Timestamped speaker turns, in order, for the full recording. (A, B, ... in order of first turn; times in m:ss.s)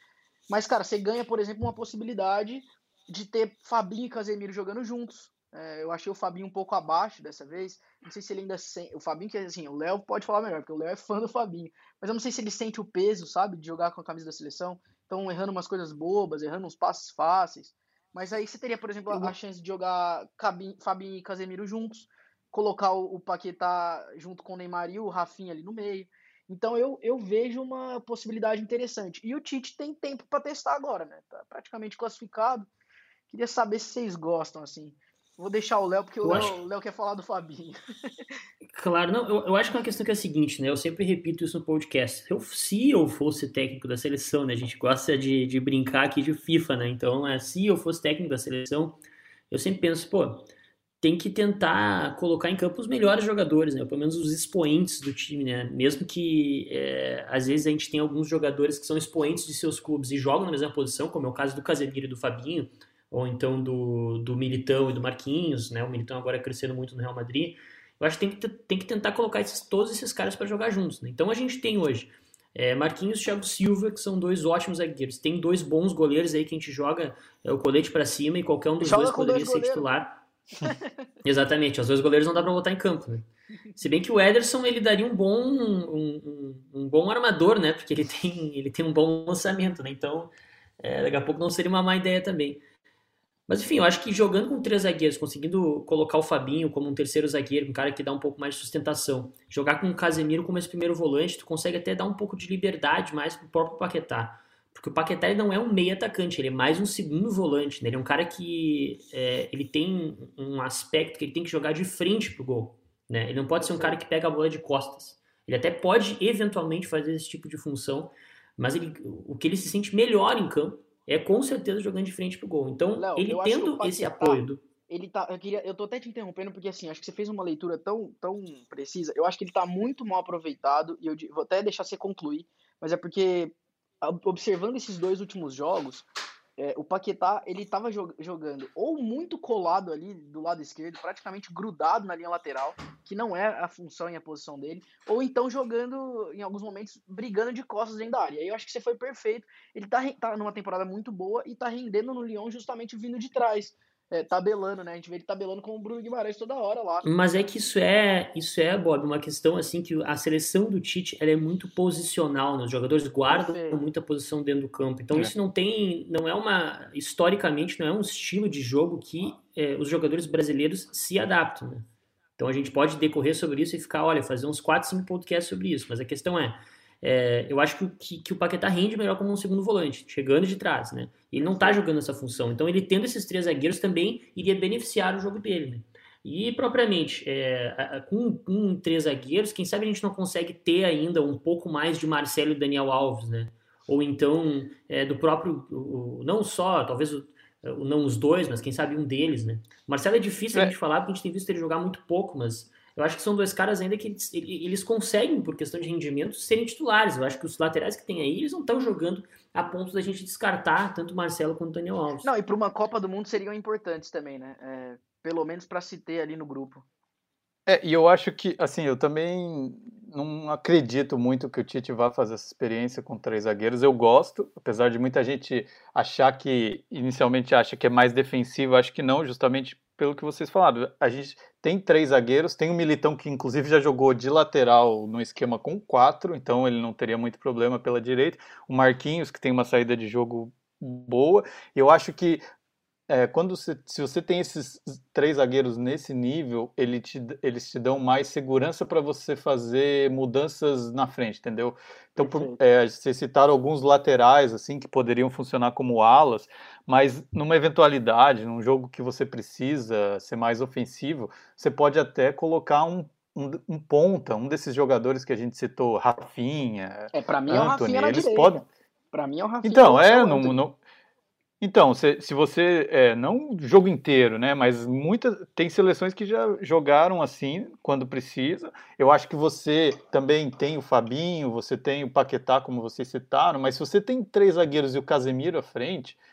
0:00.5-0:32.7 A
0:33.3-0:37.8 A
0:36.2-0:36.6 B
0:38.7-0:49.0 B
0:49.5-0:50.5 B
0:51.0-1:20.2 B
1:18.8-1:19.9 A
1:20.6-1:20.9 A
1:21.2-1:32.6 B
1:33.5-2:04.6 B
1:53.6-1:54.0 A
2:03.0-2:37.0 A
2:37.0-2:51.9 B
2:43.3-2:43.8 A
2:52.4-3:32.3 B
3:32.2-3:36.8 A
3:37.7-4:02.4 C
4:03.1-4:28.6 C
4:12.2-4:12.6 A
4:27.1-4:30.6 A
4:29.6-4:30.8 C
4:31.6-4:46.2 C